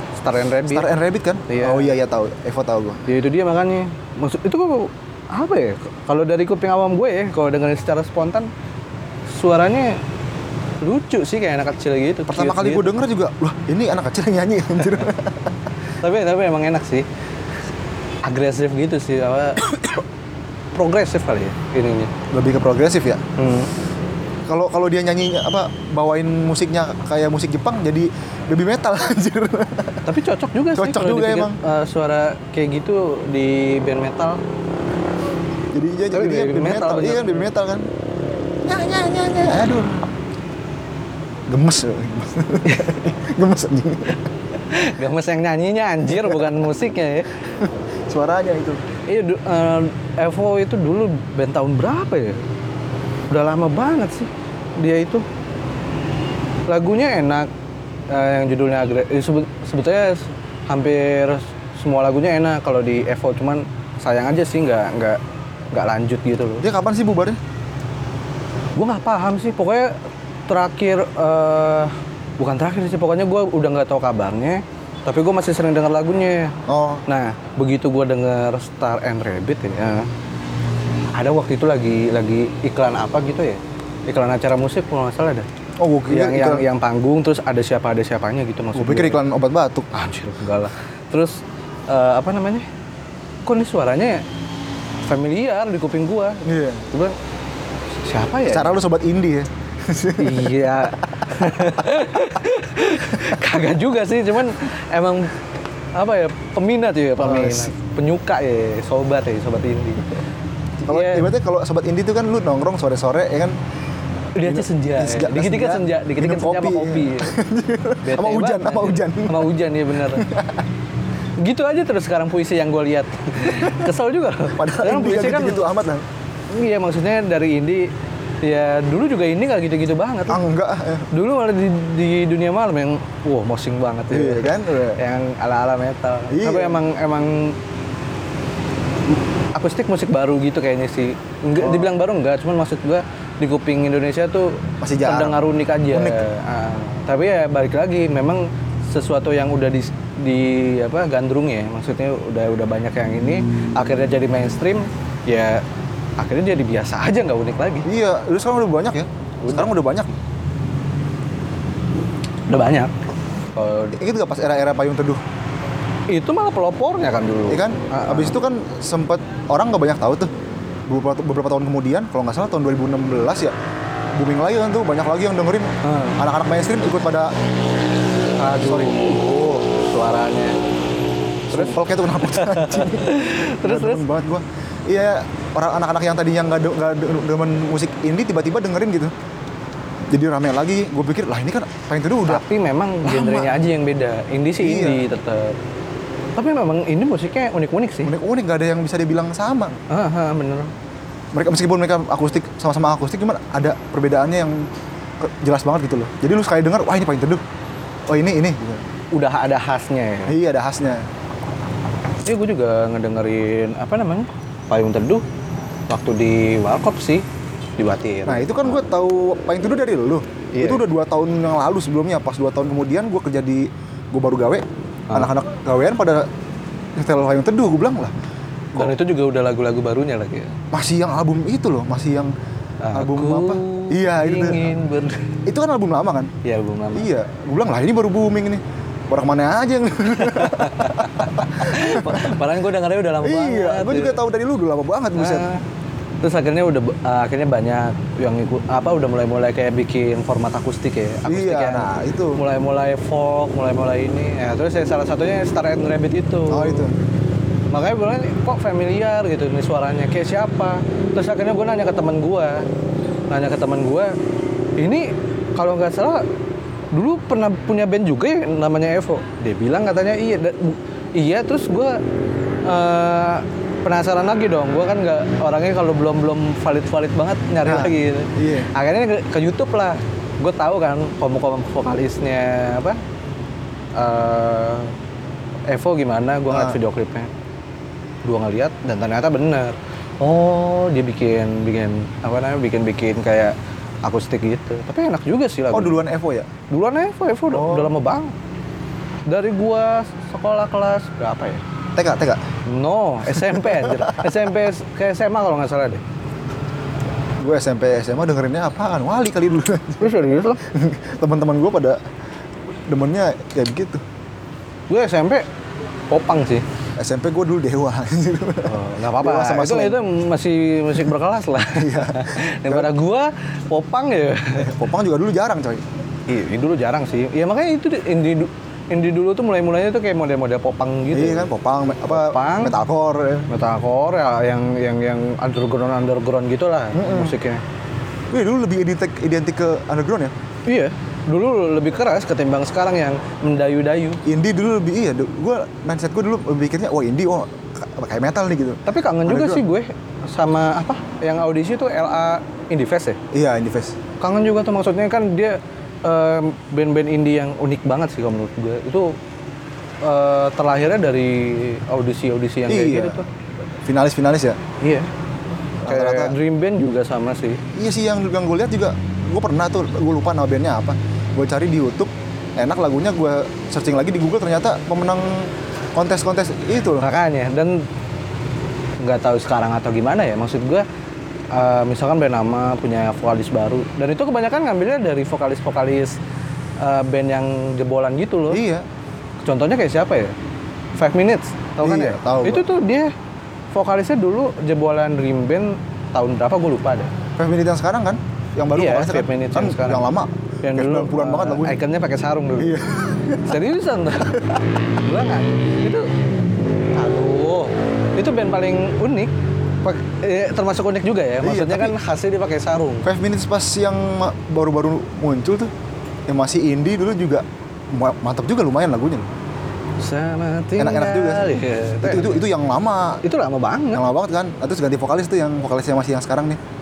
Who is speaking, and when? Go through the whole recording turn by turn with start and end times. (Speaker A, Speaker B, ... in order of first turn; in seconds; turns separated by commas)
Speaker A: 0.2-0.9, Speaker B: 0.7-3.0, Speaker A: 1.5-2.0, Speaker A: 3.1-8.5, Speaker A: 9.3-10.0, Speaker A: 10.8-12.9, Speaker B: 12.3-15.5, Speaker A: 16.0-17.1, Speaker A: 18.2-20.0, Speaker A: 20.8-22.1, Speaker B: 22.3-23.2, Speaker A: 23.4-23.7, Speaker B: 24.5-30.1, Speaker A: 30.1-34.4, Speaker B: 30.8-31.6, Speaker B: 35.7-37.9, Speaker A: 36.1-37.4, Speaker B: 38.7-40.1, Speaker B: 41.5-44.2, Speaker A: 44.7-47.3, Speaker B: 46.1-46.6, Speaker B: 47.6-48.8, Speaker A: 49.1-52.4, Speaker A: 53.3-55.2, Speaker A: 56.7-57.5, Speaker A: 58.1-65.2, Speaker A: 65.7-66.7, Speaker B: 66.6-67.4, Speaker A: 68.8-80.1, Speaker B: 76.7-77.0, Speaker A: 81.1-85.5, Speaker B: 85.8-86.7, Speaker A: 86.1-89.2, Speaker B: 88.8-89.9, Speaker A: 89.9-92.7, Speaker A: 93.5-94.2, Speaker A: 95.0-97.2, Speaker B: 96.5-96.9, Speaker A: 98.0-98.8, Speaker B: 98.5-101.9, Speaker A: 100.2-105.4, Speaker A: 105.9-110.2, Speaker B: 107.2-107.7, Speaker B: 110.8-113.6, Speaker A: 110.9-111.3, Speaker A: 114.3-117.4, Speaker B: 114.4-119.5, Speaker A: 118.0-120.3, Speaker B: 120.1-120.6, Speaker A: 121.4-125.7, Speaker B: 124.5-126.0, Speaker A: 126.5-130.4, Speaker B: 130.3-131.1, Speaker A: 131.1-137.6, Speaker B: 134.1-135.0, Speaker B: 136.3-136.8, Speaker A: 139.1-155.6, Speaker B: 141.6-141.9, Speaker B: 144.8-145.4, Speaker B: 145.9-146.2, Speaker A: 156.2-157.9, Speaker B: 157.9-160.2, Speaker A: 159.4-159.7, Speaker A: 162.5-162.9, Speaker A: 163.6-164.0, Speaker B: 163.9-165.2, Speaker A: 166.1-168.4, Speaker B: 167.5-170.3, Speaker B: 170.9-173.5, Speaker B: 174.2-177.3, Speaker A: 175.8-176.2, Speaker A: 178.4-180.6, Speaker B: 178.6-179.5, Speaker B: 181.5-189.1, Speaker A: 181.5-184.1, Speaker B: 190.1-192.4, Speaker A: 192.2-195.6, Speaker B: 193.1-193.6, Speaker B: 194.6-195.0, Speaker A: 196.4-198.1, Speaker B: 198.0-199.8, Speaker A: 199.9-200.7, Speaker B: 201.3-204.7, Speaker B: 205.2-207.4, Speaker B: 208.1-208.8, Speaker A: 209.1-210.4, Speaker B: 210.3-211.0, Speaker A: 212.2-215.2, Speaker A: 215.9-217.3, Speaker A: 217.8-218.8, Speaker B: 218.3-226.2, Speaker A: 220.5-220.8, Speaker B: 227.0-228.1, Speaker A: 228.7-230.6, Speaker B: 230.7-232.3, Speaker A: 232.8-235.4, Speaker B: 232.9-234.7, Speaker B: 235.5-236.3, Speaker A: 236.4-237.1, Speaker B: 236.9-242.4, Speaker A: 240.2-244.2, Speaker B: 243.2-245.5, Speaker A: 245.1-245.7, Speaker A: 246.2-256.9, Speaker B: 251.2-252.4, Speaker B: 256.5-256.9, Speaker A: 257.7-262.7, Speaker A: 263.3-264.2, Speaker A: 264.8-266.2, Speaker A: 266.9-272.0, Speaker A: 272.6-283.0, Speaker B: 277.6-278.7, Speaker A: 283.9-284.9, Speaker A: 285.7-287.3, Speaker B: 286.5-286.8, Speaker A: 288.2-296.0, Speaker B: 295.7-296.5, Speaker A: 296.7-298.3, Speaker B: 297.5-297.9, Speaker A: 299.3-301.6, Speaker B: 302.0-302.4, Speaker A: 302.7-306.0, Speaker B: 303.3-304.2, Speaker B: 307.4-312.0, Speaker A: 310.0-310.6, Speaker B: 312.9-314.0, Speaker A: 314.9-315.5, Speaker A: 316.1-316.6, Speaker B: 317.0-320.0, Speaker A: 318.6-324.8, Speaker B: 321.6-322.9, Speaker B: 324.6-325.9, Speaker A: 326.3-331.5, Speaker B: 331.1-333.5, Speaker A: 332.1-332.8, Speaker A: 333.5-337.6, Speaker B: 336.9-337.4, Speaker B: 338.3-340.3, Speaker A: 340.7-344.2, Speaker B: 344.2-349.6, Speaker A: 348.9-353.2, Speaker B: 353.3-354.0, Speaker A: 354.2-359.1, Speaker A: 360.0-363.2, Speaker B: 362.7-364.6, Speaker A: 364.8-365.1, Speaker A: 365.8-367.6, Speaker B: 365.8-366.4, Speaker B: 367.7-377.1, Speaker A: 377.0-377.9, Speaker A: 379.0-380.9, Speaker A: 381.5-386.2, Speaker A: 386.8-388.6, Speaker B: 388.5-388.9, Speaker A: 389.4-390.4, Speaker A: 391.0-393.1, Speaker B: 391.8-392.7, Speaker A: 393.7-397.1, Speaker B: 397.4-401.8, Speaker A: 398.7-400.1, Speaker A: 400.6-402.8, Speaker B: 402.6-403.6, Speaker A: 403.4-406.1, Speaker A: 406.9-409.3, Speaker A: 409.8-413.1, Speaker B: 411.4-412.0, Speaker B: 413.1-415.7, Speaker B: 416.3-419.3, Speaker A: 420.0-422.4, Speaker B: 420.8-423.2, Speaker A: 423.2-424.0, Speaker B: 423.9-426.6